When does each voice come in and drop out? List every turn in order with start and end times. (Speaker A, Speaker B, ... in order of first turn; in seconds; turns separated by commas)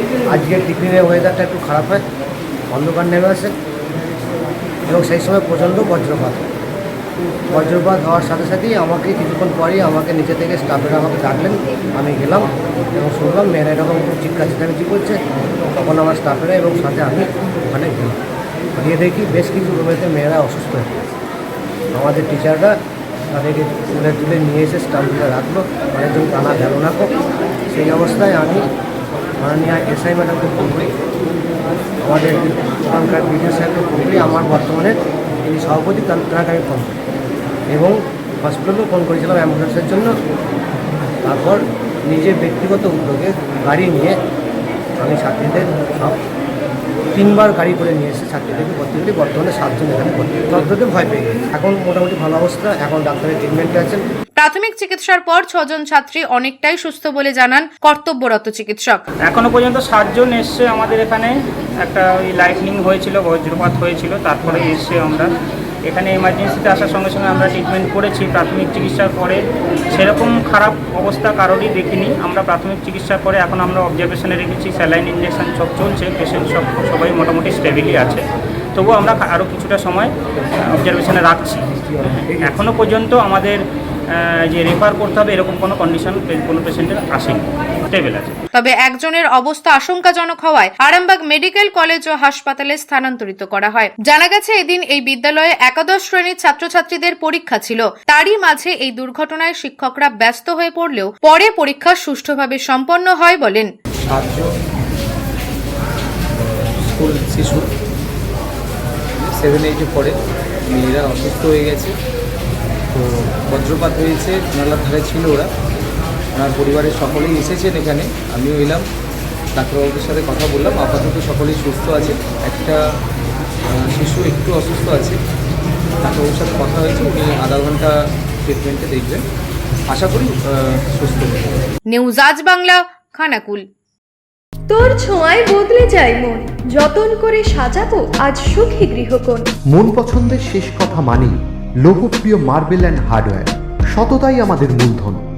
Speaker A: 0.3-2.0, Speaker A: 2.7-3.5, Speaker A: 4.9-6.5, Speaker A: 7.5-15.2, Speaker A: 15.7-18.2, Speaker A: 18.8-20.9, Speaker A: 21.9-22.8, Speaker A: 23.3-27.1, Speaker A: 27.7-28.7, Speaker A: 29.4-31.0, Speaker A: 32.0-37.0, Speaker A: 37.7-40.1, Speaker A: 41.2-44.1, Speaker A: 45.0-46.2, Speaker A: 47.1-54.0, Speaker B: 54.4-59.0, Speaker C: 59.3-65.3, Speaker C: 65.9-69.4, Speaker C: 69.9-78.2, Speaker C: 78.8-88.4, Speaker B: 88.5-103.7, Speaker D: 104.1-104.5, Speaker D: 106.4-107.7, Speaker D: 109.2-110.2, Speaker D: 110.7-111.9, Speaker D: 112.9-115.5, Speaker D: 116.3-118.8, Speaker D: 119.5-122.8, Speaker D: 123.7-125.2, Speaker D: 126.0-127.9, Speaker D: 128.4-129.2, Speaker D: 129.9-131.7, Speaker B: 131.9-133.7, Speaker E: 134.7-139.5, Speaker F: 139.7-145.2